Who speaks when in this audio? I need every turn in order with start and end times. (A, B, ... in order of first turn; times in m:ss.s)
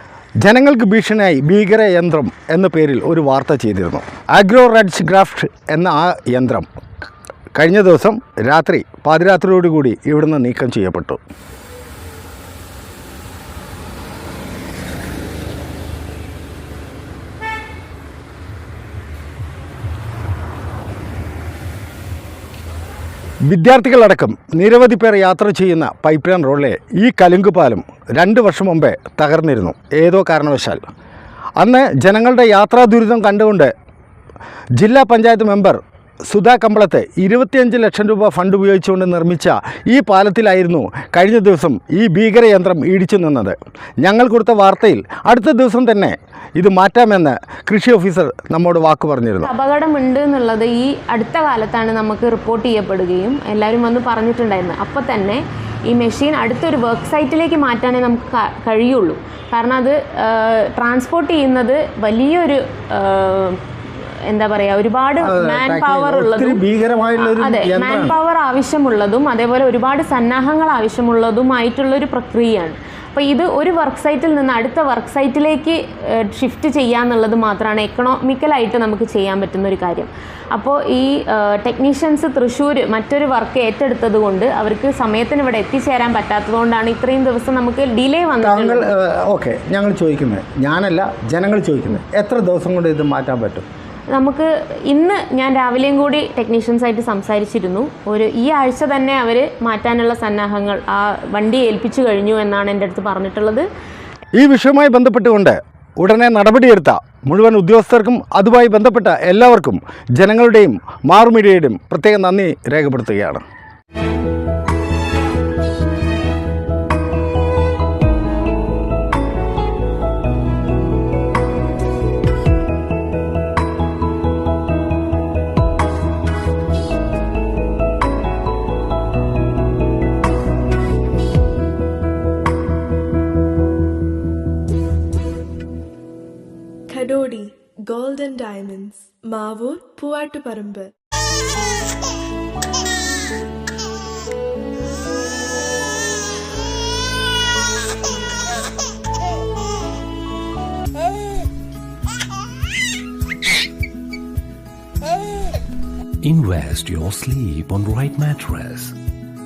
0:00.4-0:06.7 A
0:07.5-0:11.2 A
0:23.5-0:30.8 A
0:31.6-0:33.7 A
0:34.8-0:49.5 A
0:49.4-1:03.6 B
1:04.3-1:06.6 B
1:05.2-1:08.1 A
1:07.2-1:28.9 B
1:28.4-1:33.6 A
1:34.1-1:43.7 B
1:44.4-1:53.4 A
2:16.9-2:20.9 C
2:36.2-2:39.0 D